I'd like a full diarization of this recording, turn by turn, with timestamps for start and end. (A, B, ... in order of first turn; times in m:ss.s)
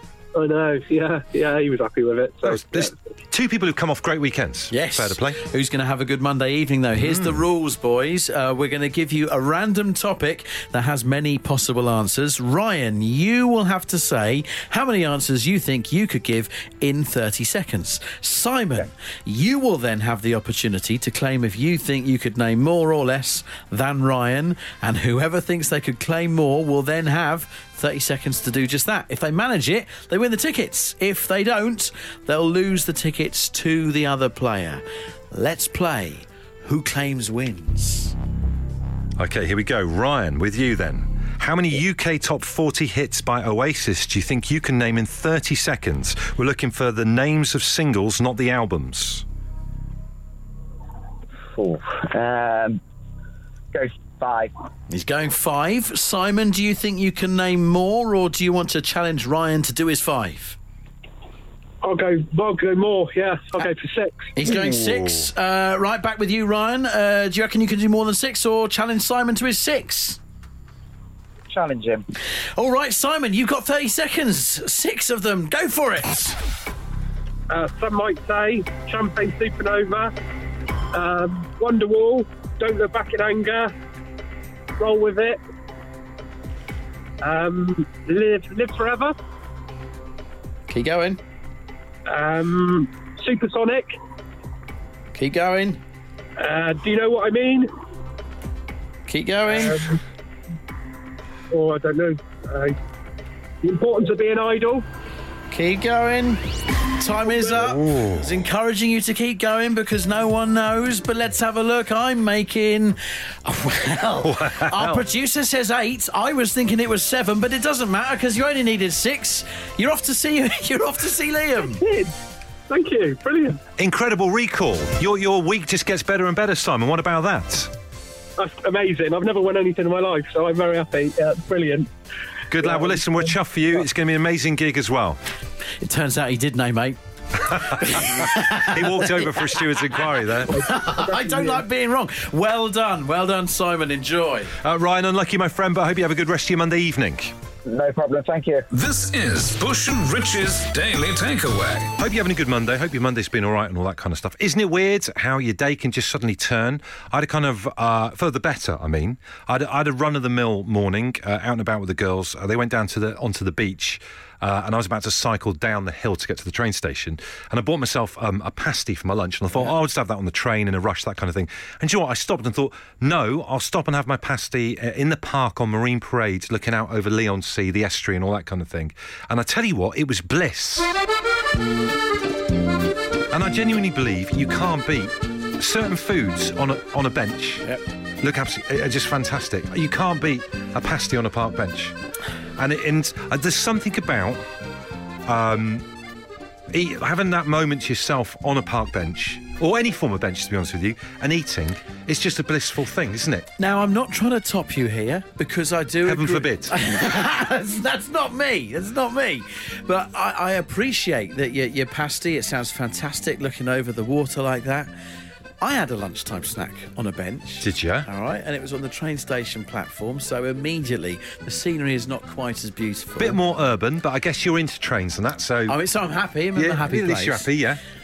0:00.3-0:03.0 A
0:02.4-0:05.4 B
0:04.7-0:38.1 C
0:07.0-0:07.4 B
0:39.2-0:49.2 B
0:51.5-0:52.8 D
0:53.7-0:54.5 D
0:54.9-1:00.6 C
1:01.8-1:04.3 A
1:04.4-1:10.2 C
1:04.4-1:05.2 B
1:11.5-1:12.0 D
1:12.6-1:16.4 C
1:17.5-1:20.1 A
1:20.9-1:23.7 A
1:24.8-1:25.4 A
1:27.2-1:29.1 A
1:30.7-1:31.2 C
1:32.0-1:34.0 A
1:35.1-1:35.8 C
1:36.4-1:37.7 A
1:39.1-1:39.9 C
1:39.5-1:40.0 A
1:41.5-1:42.8 A
1:43.6-1:44.8 A
1:45.5-2:01.8 C
1:47.6-1:48.3 B
1:54.2-1:55.0 B
2:01.8-2:02.1 A
2:02.7-2:03.6 A
2:03.8-2:07.7 B
2:08.4-2:11.9 A
2:12.5-2:15.2 B
2:12.6-2:13.0 A
2:15.8-2:19.6 C
2:17.5-2:20.6 B
2:20.4-2:24.5 C
2:20.7-2:21.6 A
2:24.6-2:27.3 B
2:27.6-2:28.6 D
2:28.7-2:31.9 E
2:32.0-3:00.9 B
3:03.3-3:07.6 B
3:08.2-3:11.9 B
3:12.6-3:14.4 B
3:15.2-3:15.9 B
3:16.7-3:23.5 B
3:23.6-3:34.9 C
3:26.0-3:26.7 B
3:35.6-3:43.4 C
3:37.6-3:38.1 B
3:43.2-3:45.8 B
3:45.7-3:47.5 C
3:46.6-3:47.8 B